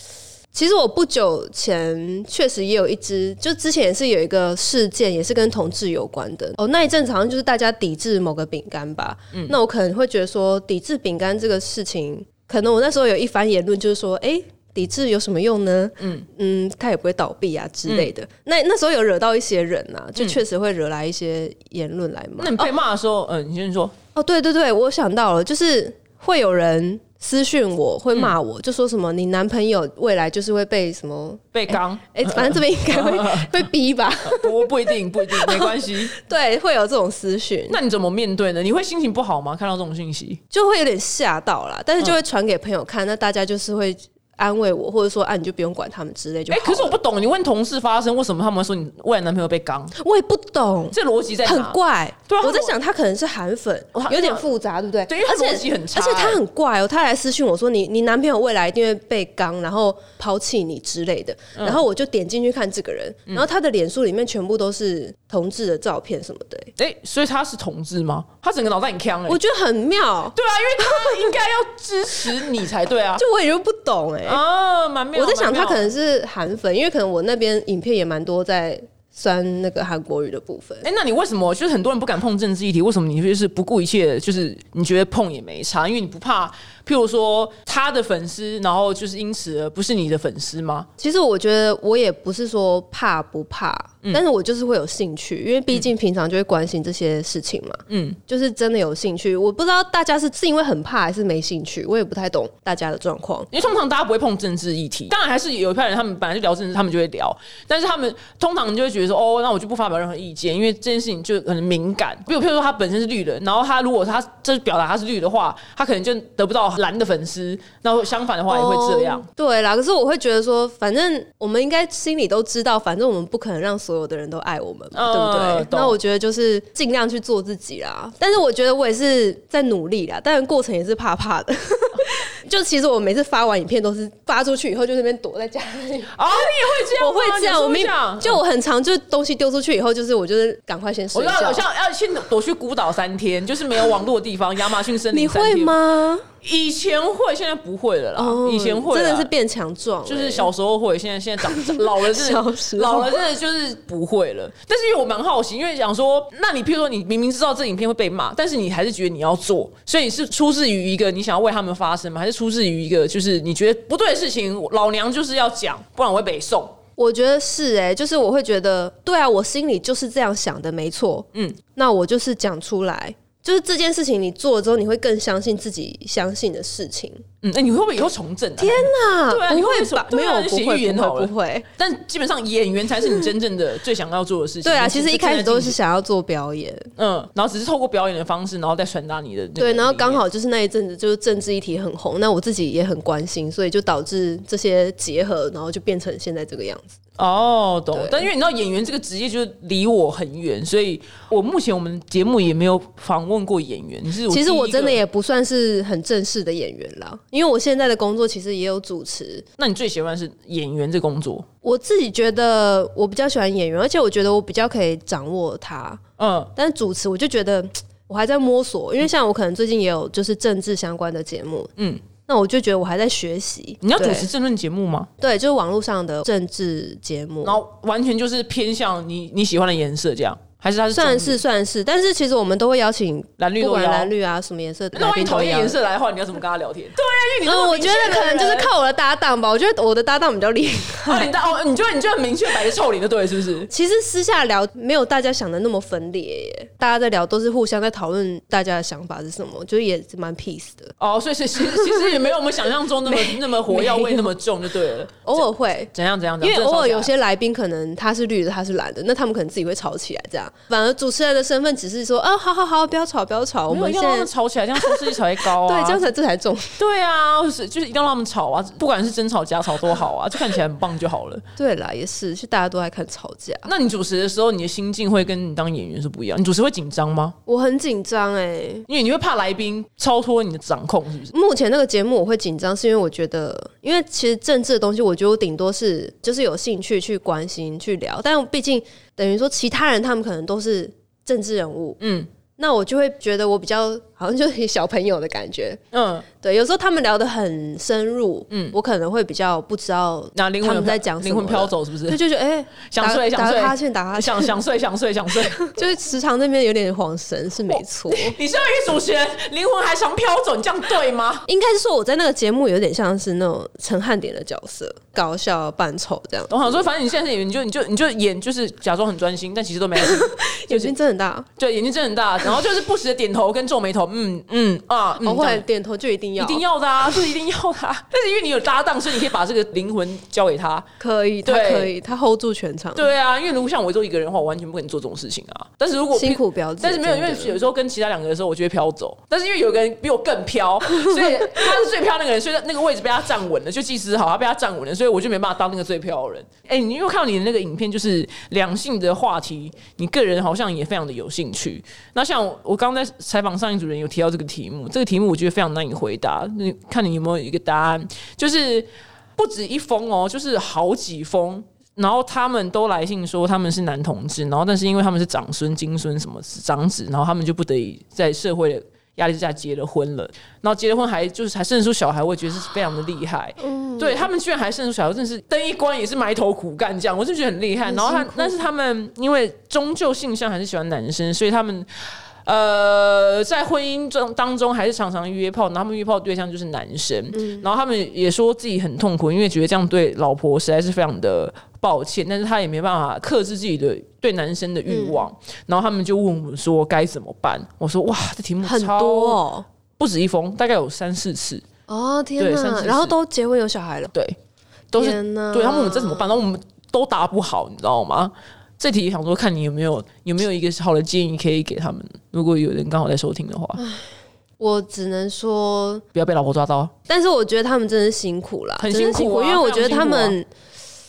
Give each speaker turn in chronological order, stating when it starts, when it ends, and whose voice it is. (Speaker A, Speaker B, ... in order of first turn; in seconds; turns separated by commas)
Speaker A: 0.5-22.7, Speaker B: 16.0-16.2, Speaker B: 22.4-23.9, Speaker A: 24.1-37.8, Speaker B: 31.5-33.5, Speaker B: 34.2-36.1, Speaker B: 37.7-40.4, Speaker A: 40.5-47.0, Speaker B: 46.5-49.9, Speaker A: 50.0-66.7, Speaker B: 50.9-52.7, Speaker B: 53.9-54.5, Speaker B: 55.1-56.4, Speaker B: 66.8-69.4, Speaker A: 69.3-71.3, Speaker B: 70.3-73.2, Speaker A: 73.2-74.4, Speaker B: 74.2-75.9, Speaker A: 75.1-80.9, Speaker B: 80.8-90.9, Speaker A: 91.0-103.5, Speaker B: 97.9-98.2, Speaker B: 103.5-119.3, Speaker A: 118.5-141.6, Speaker B: 124.9-126.0, Speaker B: 136.1-138.4, Speaker B: 141.1-145.8, Speaker A: 145.1-146.2, Speaker B: 146.4-149.3, Speaker A: 148.2-150.5, Speaker B: 150.1-166.8, Speaker A: 151.4-153.2, Speaker A: 167.0-177.2, Speaker B: 177.4-185.8, Speaker A: 178.6-181.7, Speaker A: 184.6-186.9, Speaker B: 187.0-190.2, Speaker A: 189.6-196.9, Speaker B: 197.2-205.0, Speaker A: 197.9-198.3, Speaker A: 204.3-209.4, Speaker B: 209.6-211.4, Speaker A: 211.6-216.0, Speaker B: 216.2-216.5, Speaker A: 216.5-221.7, Speaker B: 221.8-222.0, Speaker A: 222.2-224.3, Speaker B: 223.8-225.1, Speaker A: 225.2-227.6, Speaker B: 227.4-231.4, Speaker A: 230.9-235.8, Speaker B: 233.4-234.1, Speaker B: 234.9-238.7, Speaker A: 237.4-241.3, Speaker B: 241.1-243.7, Speaker A: 243.7-250.9, Speaker B: 251.0-257.1, Speaker A: 251.6-252.3, Speaker A: 253.0-254.3, Speaker A: 255.2-266.8, Speaker B: 263.7-266.1, Speaker B: 266.8-271.4, Speaker A: 271.6-273.7, Speaker B: 273.6-277.4, Speaker A: 277.5-278.9, Speaker B: 278.9-281.3, Speaker A: 281.3-292.0, Speaker B: 292.0-292.3, Speaker A: 292.6-295.8, Speaker B: 295.9-296.2, Speaker A: 296.3-304.5, Speaker B: 298.5-298.7, Speaker B: 300.3-302.2, Speaker B: 302.9-305.6, Speaker A: 305.6-308.4, Speaker B: 307.7-311.4, Speaker A: 311.5-316.9, Speaker B: 316.5-320.9, Speaker A: 320.0-321.5, Speaker B: 321.6-325.6, Speaker A: 325.2-326.6, Speaker B: 326.4-330.9, Speaker A: 331.0-333.1, Speaker B: 331.4-331.9, Speaker B: 332.9-381.9, Speaker A: 336.1-337.6, Speaker A: 340.8-341.7, Speaker A: 373.6-374.2, Speaker A: 377.8-378.6, Speaker B: 382.4-399.4, Speaker A: 387.3-387.6, Speaker A: 394.9-395.2, Speaker A: 398.6-399.6, Speaker B: 400.0-401.6, Speaker A: 401.9-404.1, Speaker B: 402.4-403.1, Speaker B: 404.9-413.8, Speaker A: 405.0-406.3, Speaker A: 413.8-414.1, Speaker A: 414.6-416.0, Speaker B: 416.1-416.9, Speaker A: 417.1-420.5, Speaker B: 418.8-420.4